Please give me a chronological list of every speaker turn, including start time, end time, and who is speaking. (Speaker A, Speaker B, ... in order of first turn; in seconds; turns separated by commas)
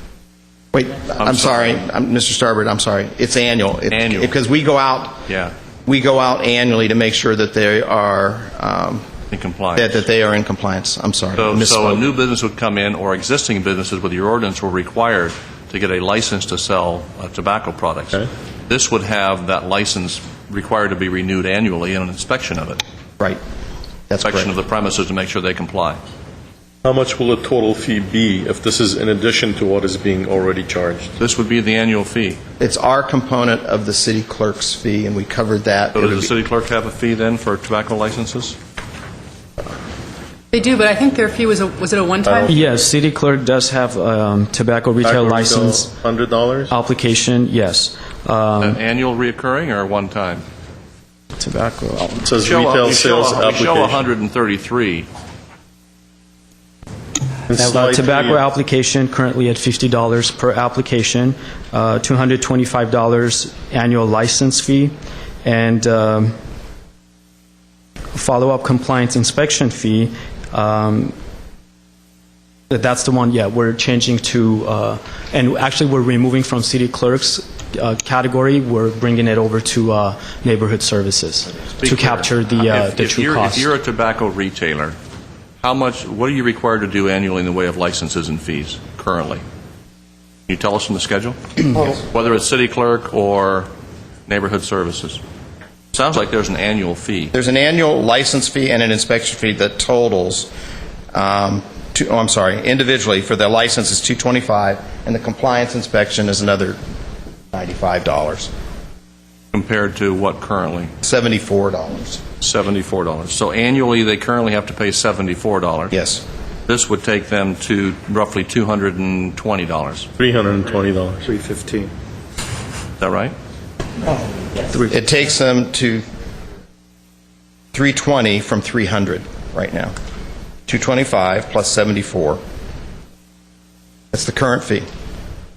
Speaker A: 0.7-5.2, Speaker B: 1.2-1.8, Speaker B: 3.9-4.3, Speaker B: 5.3-5.5, Speaker A: 5.8-9.1, Speaker B: 9.3-10.0, Speaker A: 9.8-12.1, Speaker B: 11.3-22.8, Speaker A: 24.1-24.5, Speaker B: 24.2-26.0, Speaker C: 26.8-31.1, Speaker B: 31.2-32.4, Speaker A: 32.6-36.3, Speaker B: 35.9-38.6, Speaker D: 40.5-42.6, Speaker C: 42.2-42.7, Speaker E: 42.5-45.9, Speaker C: 45.0-46.7, Speaker E: 46.7-48.8, Speaker B: 48.6-50.4, Speaker E: 51.3-52.3, Speaker C: 52.2-54.1, Speaker B: 52.4-55.1, Speaker C: 57.5-58.4, Speaker E: 57.5-64.9, Speaker E: 65.4-66.3, Speaker E: 68.1-71.2, Speaker E: 72.7-83.7, Speaker B: 81.8-85.0, Speaker B: 85.6-89.4, Speaker B: 90.5-93.7, Speaker B: 94.3-95.2, Speaker B: 95.9-97.3, Speaker A: 97.3-100.5, Speaker A: 101.1-106.8, Speaker A: 107.5-108.5, Speaker B: 109.5-110.9, Speaker A: 111.0-112.2, Speaker B: 112.4-115.9, Speaker A: 115.9-116.2, Speaker B: 116.7-120.1, Speaker C: 120.2-121.3, Speaker B: 123.0-123.3, Speaker A: 124.7-126.0, Speaker A: 127.7-129.9, Speaker A: 130.7-132.4, Speaker A: 134.1-134.9